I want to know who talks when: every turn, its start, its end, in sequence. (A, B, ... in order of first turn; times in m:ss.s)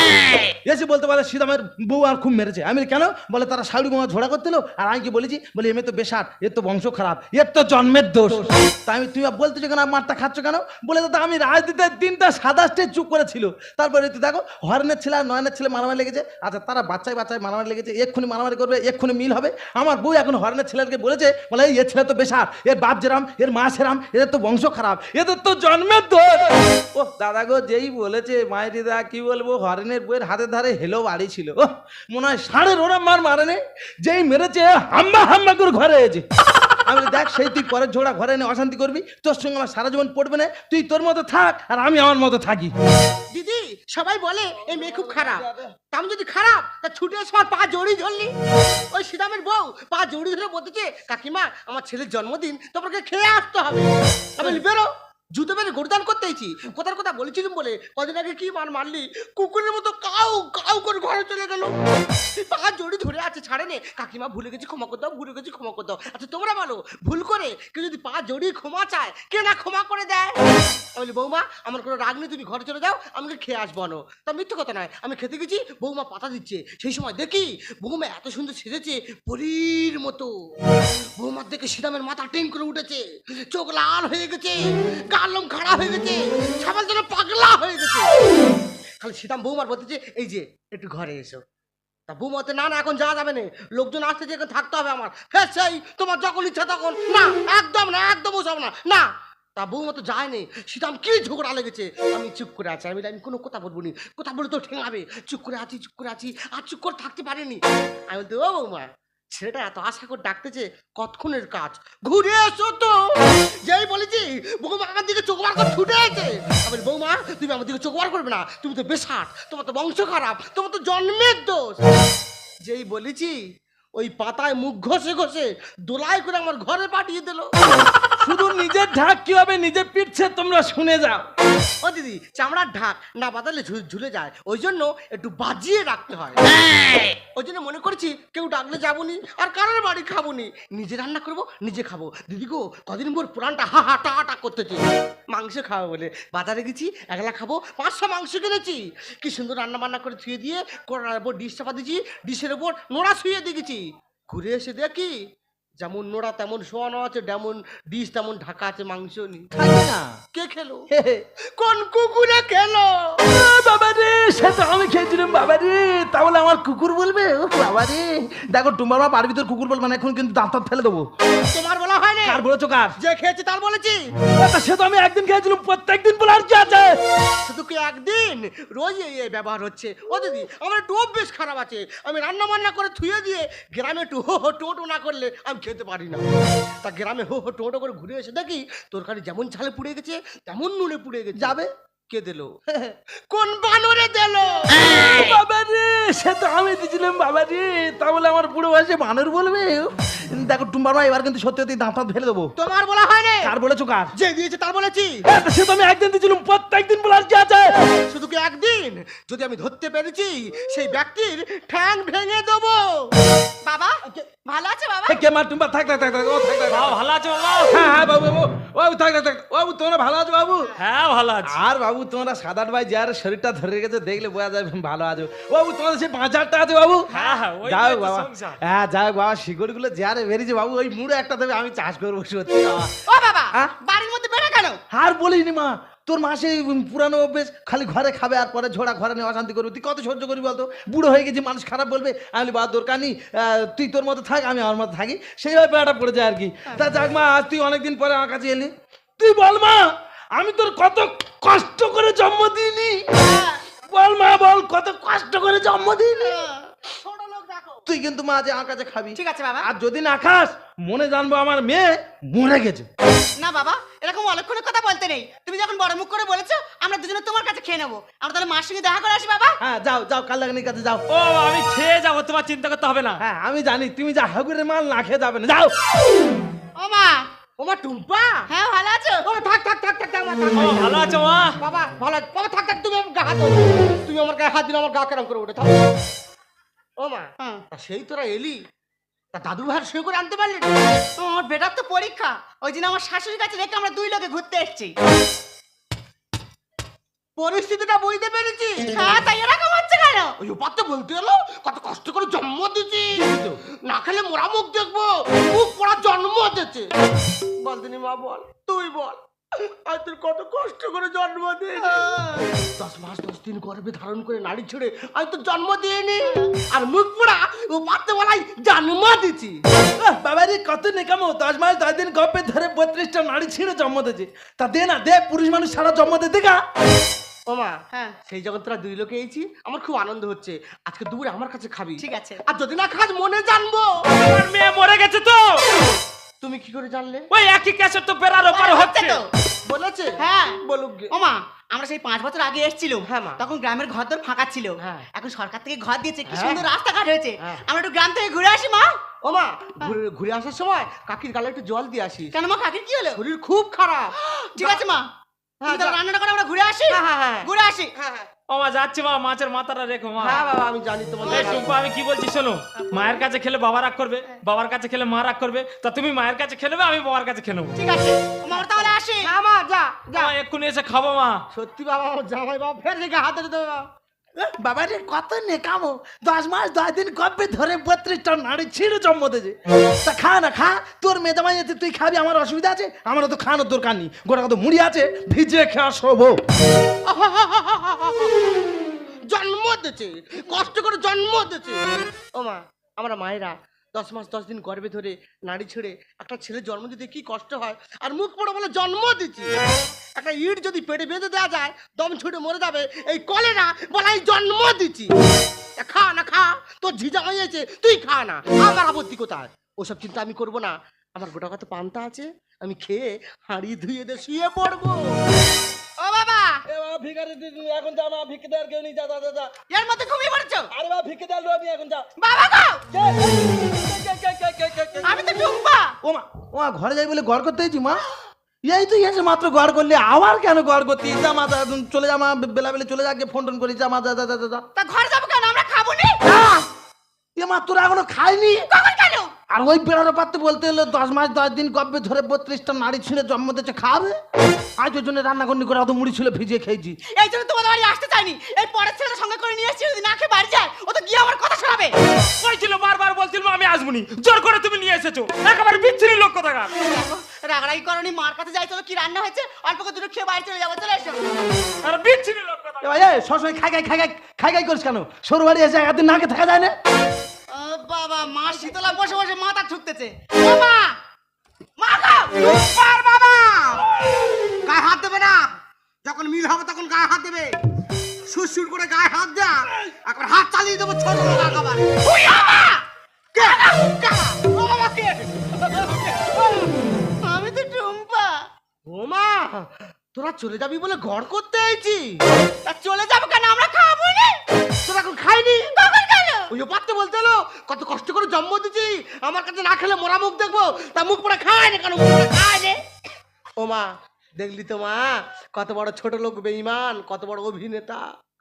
0:00.6-0:36.2 A
0:36.8-0:42.7 A
0:43.3-0:48.3 B
0:44.7-0:45.6 A
0:48.9-1:01.7 B
1:02.3-1:10.4 B
1:10.9-1:20.3 B
1:21.2-1:28.1 B
1:29.0-1:31.4 B
1:32.1-1:39.0 B
1:39.6-2:01.8 B
2:02.6-2:03.4 B
2:04.0-2:07.5 B
2:08.2-2:11.2 A
2:11.8-2:16.4 B
2:17.3-2:35.2 B
2:35.8-2:39.5 B
2:39.5-2:40.1 A
2:40.3-2:40.8 B
2:40.9-2:41.2 A
2:41.6-2:43.2 B
2:43.2-2:51.0 A
2:51.4-2:52.4 B
2:52.2-2:53.0 A
2:53.0-2:54.0 B
2:54.4-2:57.0 A
2:57.4-3:11.6 B
3:11.4-3:11.7 A
3:12.1-3:12.5 B
3:12.7-3:12.9 A
3:13.3-3:14.9 B
3:14.9-3:22.5 A
3:22.6-3:23.5 B
3:23.4-3:24.1 A
3:24.1-3:25.2 B
3:25.2-3:27.9 A
3:28.1-3:33.1 B
3:33.6-3:35.2 C
3:35.1-3:37.0 A
3:36.7-3:37.7 D
3:37.7-3:40.7 A
3:40.8-3:41.6 D
3:41.4-3:47.1 A
3:47.1-3:48.6 D
3:47.1-3:47.4 C
3:47.6-3:52.9 A
3:53.1-3:54.8 C
3:54.9-4:09.8 A
4:10.4-4:13.0 A
4:13.2-4:13.6 C
4:13.9-4:16.4 A
4:16.2-4:16.6 C
4:16.9-4:17.8 B
4:17.9-4:22.9 A
4:19.1-4:19.7 C
4:23.4-4:29.6 C
4:29.6-4:31.0 A
4:31.1-4:33.2 D
4:33.2-4:35.7 A
4:36.8-4:37.2 C
4:37.6-4:38.5 B
4:38.5-4:39.3 C
4:39.2-4:45.8 B
4:40.5-4:41.6 D
4:47.0-4:48.6 B
4:49.3-4:50.7 B
4:51.2-4:54.9 C
4:57.4-4:59.0 B
4:58.9-5:00.3 C
5:00.4-5:03.3 B
5:03.2-5:03.6 A
5:03.8-5:06.9 B
5:07.6-5:12.1 B
5:11.8-5:12.4 C
5:12.6-5:19.6 B
5:20.0-5:26.6 A
5:27.5-5:33.9 B
5:32.0-5:32.4 C
5:34.1-5:35.7 D
5:36.4-5:37.3 B
5:37.3-5:39.2 D
5:38.5-5:39.3 C
5:39.7-5:41.1 B
5:40.2-5:48.9 C
5:43.0-5:43.4 B
5:44.8-5:45.0 B
5:46.3-5:46.6 B
5:49.2-5:52.3 B
5:52.3-5:53.2 C
5:53.1-5:54.8 B
5:54.2-5:55.0 C
5:55.6-5:56.0 B
5:55.7-5:57.9 C
5:56.9-5:58.3 B
5:58.5-6:00.5 D
6:00.2-6:01.7 B
6:01.2-6:01.6 C
6:01.2-6:07.8 D
6:02.8-6:03.2 C
6:07.8-6:09.3 C
6:08.5-6:10.3 B
6:10.1-6:11.4 D
6:11.5-6:13.9 B
6:14.4-6:26.4 A
6:27.0-6:28.5 B
6:29.3-6:31.8 B
6:32.3-6:39.6 B
6:40.2-6:45.1 B
6:45.8-6:55.2 B
6:56.0-6:56.6 C
6:56.7-6:59.5 A
6:59.7-7:00.7 C
7:00.7-7:02.1 A
7:02.2-7:02.8 C
7:02.9-7:05.2 A
7:05.0-7:05.9 C
7:06.0-7:08.0 A
7:08.7-7:14.6 A
7:14.7-7:16.2 C
7:16.3-7:16.6 A
7:17.4-7:18.7 A
7:18.7-7:19.3 C
7:19.5-7:24.2 A
7:24.8-7:27.0 A
7:27.1-7:31.9 C
7:32.2-7:36.7 D
7:36.7-7:41.3 C
7:41.8-7:43.0 D
7:42.8-7:46.7 A
7:47.5-7:50.9 C
7:51.8-7:52.3 C
7:52.3-7:53.9 B
7:54.6-7:55.5 B
7:56.0-7:57.6 B
7:58.3-8:02.0 B
8:02.1-8:02.8 C
8:03.3-8:06.7 B
8:03.4-8:03.8 C
8:07.2-8:08.4 C
8:08.9-8:12.2 B
8:12.6-8:14.4 C
8:14.8-8:15.7 B
8:15.7-8:16.5 C
8:16.5-8:22.8 B
8:23.6-8:28.1 B